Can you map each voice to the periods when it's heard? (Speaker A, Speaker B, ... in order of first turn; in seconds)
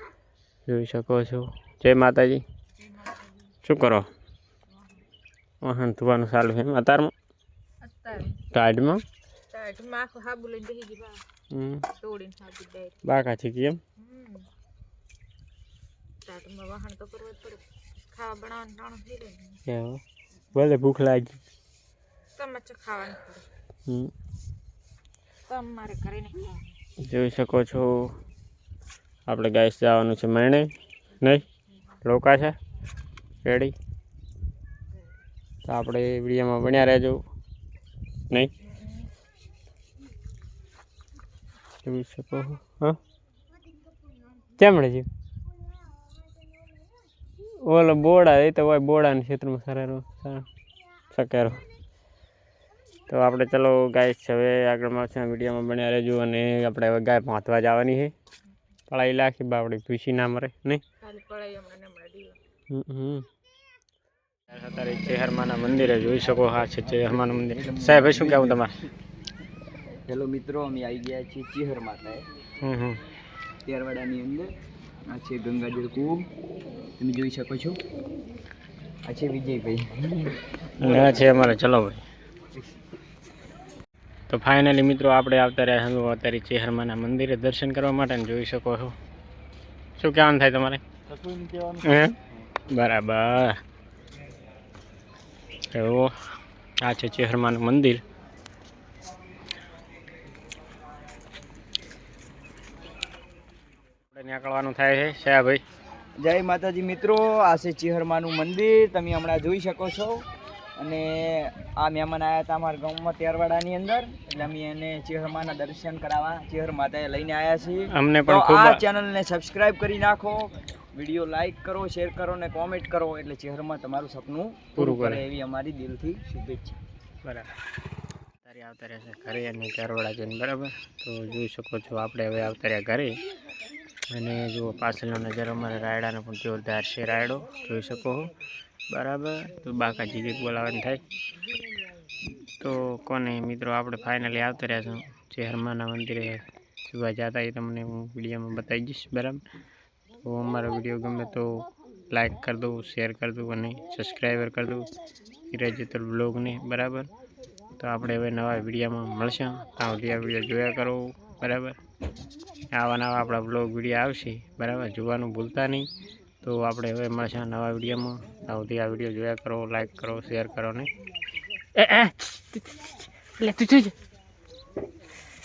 Speaker A: 0.7-2.4, 3.6-4.1, 5.6-7.1, 8.5-9.0, 11.5-11.9, 13.0-13.8, 19.6-20.0, 20.5-21.4, 27.0-28.1, 29.2-31.4, 32.0-32.6, 33.4-33.7, 35.6-37.2, 41.8-43.0, 44.5-45.1, 47.6-50.5, 51.1-51.6, 53.1-58.1, 58.9-60.8, 62.7-63.3, 64.5-68.8, 72.6-73.0, 80.8-82.0, 84.3-88.9, 90.0-90.8, 91.8-92.2, 92.7-93.6, 95.7-96.1, 96.8-98.0, 104.1-105.6, 117.9-118.8, 124.8-125.2, 127.2-127.5, 128.4-133.2, 134.1-138.3, 138.9-141.0, 142.6-149.4, 150.2-154.9, 155.5-157.1, 157.8-161.8, 162.7-165.9, 166.4-170.9, 171.8-172.7, 173.4-173.9
Speaker B: 7.8-8.4, 9.5-11.2, 11.9-13.0, 14.0-14.5, 16.2-19.6, 22.4-23.5, 25.5-26.7, 61.0-62.4
Speaker C: 66.7-68.7, 70.1-72.3, 73.6-74.5, 75.1-76.3, 77.0-77.8, 79.0-81.5, 91.1-91.8, 106.2-110.2, 110.8-126.8